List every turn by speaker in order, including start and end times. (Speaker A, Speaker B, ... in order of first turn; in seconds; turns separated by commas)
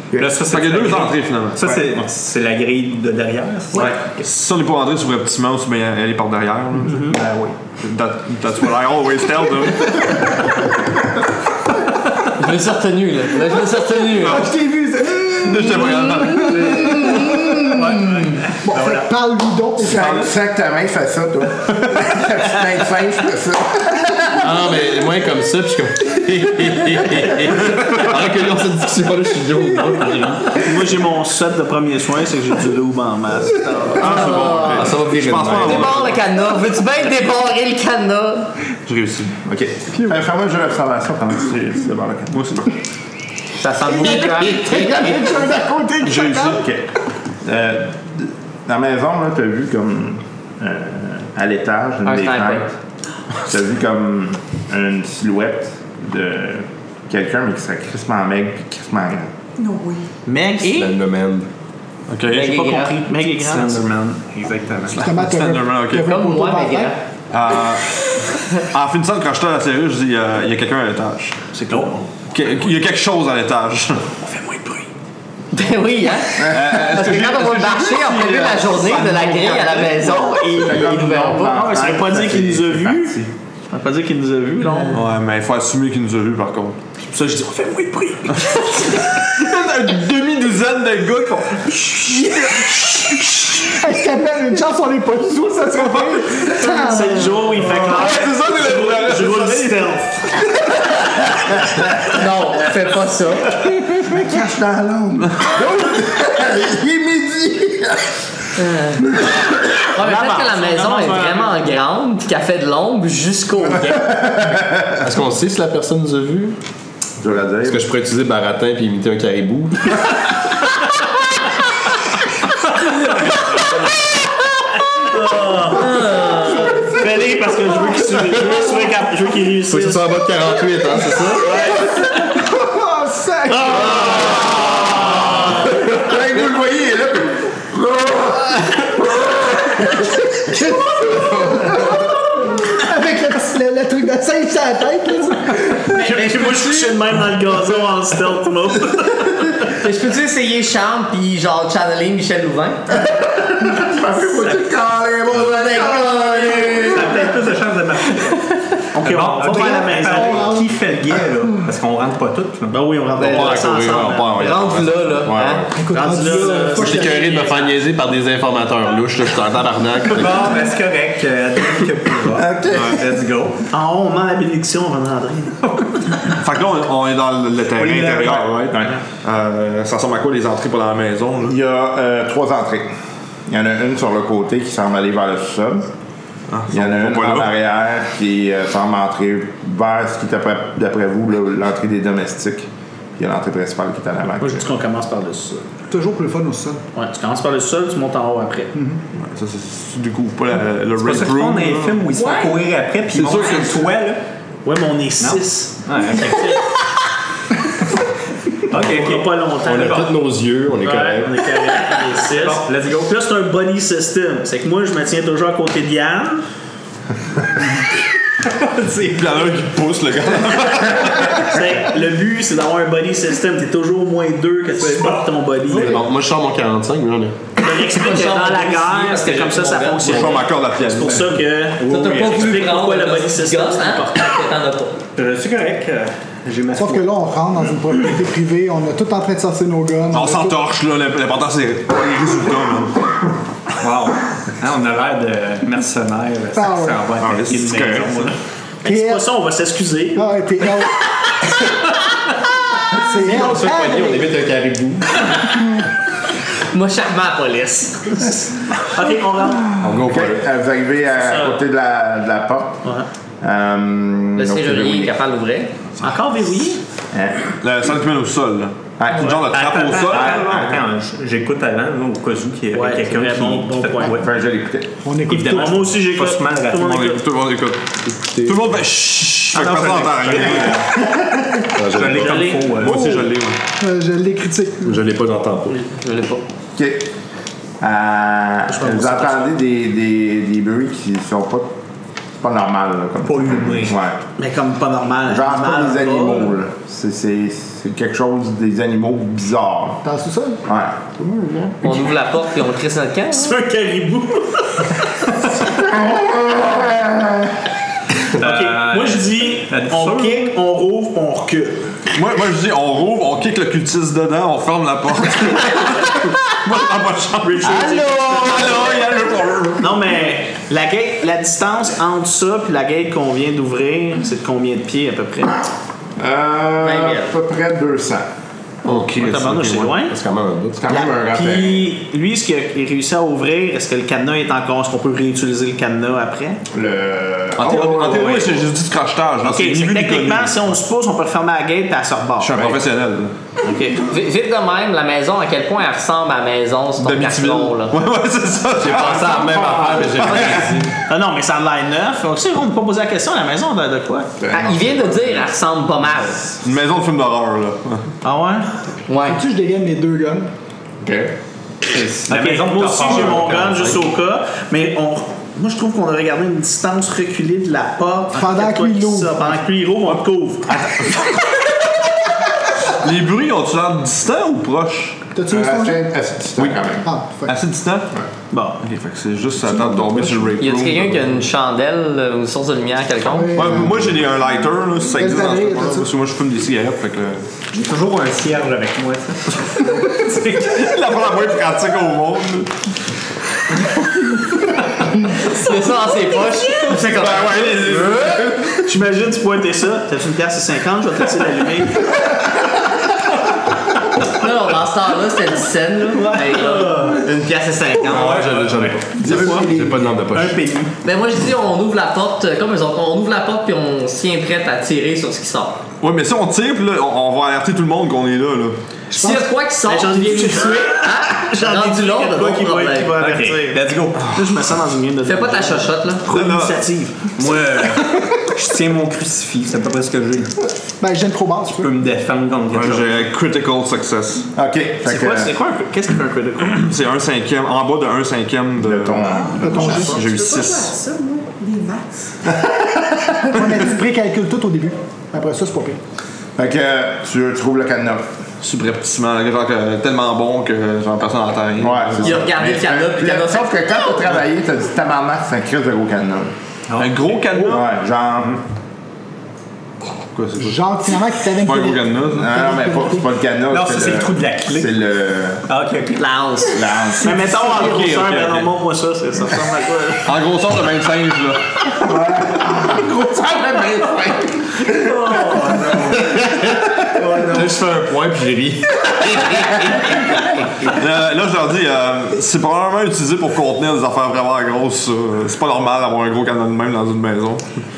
Speaker A: 0.1-4.1, Speaker B: 0.4-1.8, Speaker B: 3.8-10.4, Speaker C: 6.9-7.2, Speaker D: 12.3-14.5, Speaker B: 14.2-16.9, Speaker E: 14.4-17.8, Speaker D: 17.1-17.6, Speaker A: 17.7-19.1, Speaker E: 18.6-20.3, Speaker F: 19.8-24.4, Speaker B: 19.9-20.2, Speaker G: 24.4-30.5, Speaker C: 30.5-34.2, Speaker B: 34.0-36.2, Speaker D: 34.0-34.9, Speaker G: 34.1-36.0, Speaker D: 35.5-38.5, Speaker B: 38.9-39.4, Speaker F: 39.4-42.6, Speaker B: 42.3-42.6, Speaker D: 43.6-44.9, Speaker E: 44.0-46.5, Speaker F: 44.4-46.9, Speaker B: 46.0-46.6, Speaker F: 47.4-52.7, Speaker D: 52.0-52.7, Speaker F: 53.4-59.3, Speaker H: 59.6-60.1, Speaker C: 60.2-60.9, Speaker G: 60.6-61.5, Speaker B: 62.1-62.5, Speaker C: 62.3-63.8, Speaker D: 62.3-62.9, Speaker A: 63.3-65.1, Speaker E: 65.0-66.9, Speaker B: 65.2-66.1, Speaker D: 66.0-67.0, Speaker B: 67.3-71.4, Speaker C: 71.5-72.1, Speaker B: 72.3-74.1, Speaker C: 74.4-74.8, Speaker D: 75.5-81.6, Speaker B: 76.4-79.9, Speaker F: 80.4-83.3, Speaker C: 81.4-85.0, Speaker B: 84.8-86.8, Speaker C: 87.0-88.7, Speaker B: 89.2-93.7, Speaker E: 93.6-97.6, Speaker B: 95.7-96.7, Speaker C: 96.6-100.1, Speaker B: 97.6-100.0, Speaker D: 102.1-103.5, Speaker F: 104.0-108.1, Speaker D: 108.6-109.2, Speaker D: 109.9-114.2, Speaker C: 110.0-111.7, Speaker F: 113.9-114.8, Speaker G: 115.0-116.6, Speaker F: 117.2-117.8, Speaker G: 117.6-120.1, Speaker C: 125.0-130.2, Speaker D: 125.8-126.7, Speaker E: 126.4-126.9, Speaker G: 129.6-131.6, Speaker C: 131.4-131.9, Speaker E: 132.4-134.4, Speaker F: 133.5-140.5, Speaker C: 133.6-134.4, Speaker C: 135.0-135.4, Speaker E: 140.5-146.0, Speaker F: 141.4-141.8, Speaker C: 146.0-149.7, Speaker D: 146.0-146.9, Speaker D: 149.8-152.9, Speaker F: 153.1-157.2, Speaker D: 155.4-157.0, Speaker A: 156.8-162.8, Speaker C: 156.9-157.3, Speaker C: 158.9-160.5, Speaker E: 159.4-160.7, Speaker C: 162.7-164.5, Speaker B: 163.2-165.6, Speaker D: 164.4-165.6, Speaker E: 165.7-167.4, Speaker C: 165.9-167.8, Speaker G: 166.5-170.5, Speaker A: 170.0-173.6, Speaker F: 172.3-172.9, Speaker B: 172.7-173.1, Speaker C: 173.7-175.6, Speaker A: 175.6-175.9, Speaker B: 176.3-181.6, Speaker A: 177.8-178.7, Speaker F: 181.4-182.9, Speaker F: 183.5-185.9, Speaker B: 186.5-187.5, Speaker F: 186.7-194.7, Speaker C: 194.4-195.6, Speaker E: 195.9-196.8, Speaker C: 196.9-198.7, Speaker E: 198.7-199.0, Speaker B: 199.1-202.1, Speaker A: 201.0-204.2, Speaker D: 202.2-202.5, Speaker G: 203.2-203.7, Speaker C: 204.6-205.7, Speaker A: 205.2-206.6, Speaker A: 208.7-210.1, Speaker C: 208.7-210.1, Speaker G: 209.6-211.4, Speaker C: 210.8-216.4, Speaker A: 212.3-213.1, Speaker A: 218.8-219.0, Speaker B: 219.0-221.6, Speaker C: 221.2-226.0, Speaker A: 224.8-225.2, Speaker G: 225.7-227.4, Speaker C: 227.6-234.2, Speaker D: 227.6-230.4, Speaker B: 230.0-231.4, Speaker A: 231.8-232.7, Speaker D: 231.8-235.0, Speaker A: 235.2-237.1, Speaker E: 236.7-240.6, Speaker B: 240.1-243.0, Speaker A: 243.8-248.4, Speaker E: 246.6-247.1, Speaker B: 247.2-248.2, Speaker C: 248.8-250.4, Speaker E: 248.8-249.2, Speaker E: 250.1-250.9, Speaker E: 253.0-254.3, Speaker G: 253.1-255.3, Speaker D: 256.7-258.2, Speaker C: 258.8-259.8, Speaker G: 259.8-260.4, Speaker F: 259.9-262.9, Speaker C: 261.2-261.6, Speaker F: 263.4-265.2, Speaker D: 264.4-265.7, Speaker C: 266.0-266.8, Speaker F: 267.1-267.5, Speaker B: 267.6-270.7, Speaker F: 269.0-269.4, Speaker A: 269.5-274.3, Speaker F: 270.1-270.7, Speaker C: 272.7-274.2, Speaker F: 274.0-274.9, Speaker E: 275.1-275.9, Speaker A: 275.3-277.1, Speaker C: 275.3-277.2, Speaker B: 276.8-277.9, Speaker G: 278.2-278.6, Speaker B: 278.4-280.9, Speaker A: 279.6-280.9, Speaker C: 279.7-280.8, Speaker G: 281.8-282.5, Speaker A: 281.9-283.1, Speaker C: 282.1-282.7, Speaker B: 282.7-283.6, Speaker E: 282.8-285.0, Speaker G: 284.8-285.7, Speaker D: 285.7-286.4, Speaker F: 286.8-287.1, Speaker F: 287.8-291.7, Speaker C: 288.7-289.5, Speaker F: 292.4-294.2, Speaker A: 293.2-294.0, Speaker C: 294.4-296.5, Speaker F: 295.2-300.0, Speaker E: 300.0-300.6, Speaker F: 300.6-301.7, Speaker D: 301.8-303.6, Speaker C: 303.3-305.6, Speaker F: 305.8-307.6, Speaker A: 308.4-310.5, Speaker C: 308.4-312.0, Speaker B: 312.1-320.0, Speaker C: 317.4-318.8, Speaker C: 319.8-325.7, Speaker F: 326.2-328.3, Speaker D: 326.8-327.3, Speaker C: 328.9-330.1, Speaker G: 328.9-331.0, Speaker F: 330.8-331.9, Speaker C: 330.9-336.6, Speaker F: 336.7-338.6, Speaker B: 337.6-340.7, Speaker C: 339.4-342.8, Speaker B: 342.4-343.3, Speaker C: 343.6-344.1, Speaker D: 344.0-347.9, Speaker B: 347.0-350.9, Speaker G: 348.8-350.9, Speaker F: 349.4-350.4, Speaker C: 351.1-354.3, Speaker F: 354.4-355.5, Speaker D: 354.5-356.4, Speaker B: 356.6-358.1, Speaker C: 358.2-358.8, Speaker D: 359.1-359.4, Speaker E: 359.2-360.5, Speaker F: 361.0-361.3, Speaker A: 361.8-364.1, Speaker C: 362.3-370.9, Speaker E: 368.3-369.6, Speaker B: 370.7-371.1, Speaker B: 372.9-375.2, Speaker E: 375.3-376.1, Speaker F: 375.5-377.1, Speaker B: 376.6-376.9, Speaker E: 377.0-377.6, Speaker B: 377.4-378.1, Speaker C: 378.5-378.8, Speaker B: 378.8-381.4, Speaker G: 379.9-380.5, Speaker E: 379.9-380.3, Speaker D: 380.6-383.6, Speaker E: 383.3-384.3, Speaker B: 383.5-387.4, Speaker E: 385.1-386.1, Speaker A: 387.7-390.8, Speaker B: 390.5-392.7, Speaker D: 395.3-398.3, Speaker B: 396.8-398.9, Speaker C: 398.9-402.2, Speaker D: 404.3-408.4, Speaker C: 406.1-407.2, Speaker A: 408.0-410.9, Speaker G: 408.1-410.6, Speaker C: 409.2-409.9, Speaker D: 411.0-415.8, Speaker B: 416.0-418.8, Speaker C: 419.1-427.3, Speaker D: 419.1-423.2, Speaker A: 423.2-424.3, Speaker B: 424.2-424.5, Speaker D: 425.2-426.3, Speaker B: 426.3-426.8, Speaker A: 427.4-430.6, Speaker E: 431.0-431.9, Speaker A: 431.8-433.3, Speaker B: 432.7-434.5, Speaker F: 434.6-435.5, Speaker C: 435.1-436.9, Speaker B: 436.7-440.9, Speaker F: 438.8-440.0, Speaker E: 439.6-440.3, Speaker H: 439.6-442.5, Speaker F: 442.6-443.2, Speaker E: 443.5-446.0, Speaker F: 446.6-448.3, Speaker B: 448.6-452.4, Speaker F: 451.8-456.5, Speaker D: 452.2-454.2, Speaker A: 456.9-457.7, Speaker B: 456.9-457.9, Speaker F: 457.7-458.6, Speaker B: 460.4-460.9, Speaker E: 460.6-463.3, Speaker B: 461.6-462.5, Speaker F: 462.4-465.6, Speaker A: 463.7-465.0, Speaker A: 465.7-466.2, Speaker D: 466.2-466.8, Speaker F: 466.7-467.6, Speaker C: 467.2-470.4, Speaker B: 467.6-468.7, Speaker B: 470.2-471.9, Speaker F: 472.0-475.7, Speaker C: 475.1-475.9, Speaker G: 476.3-476.6, Speaker G: 477.3-480.1, Speaker B: 480.9-487.7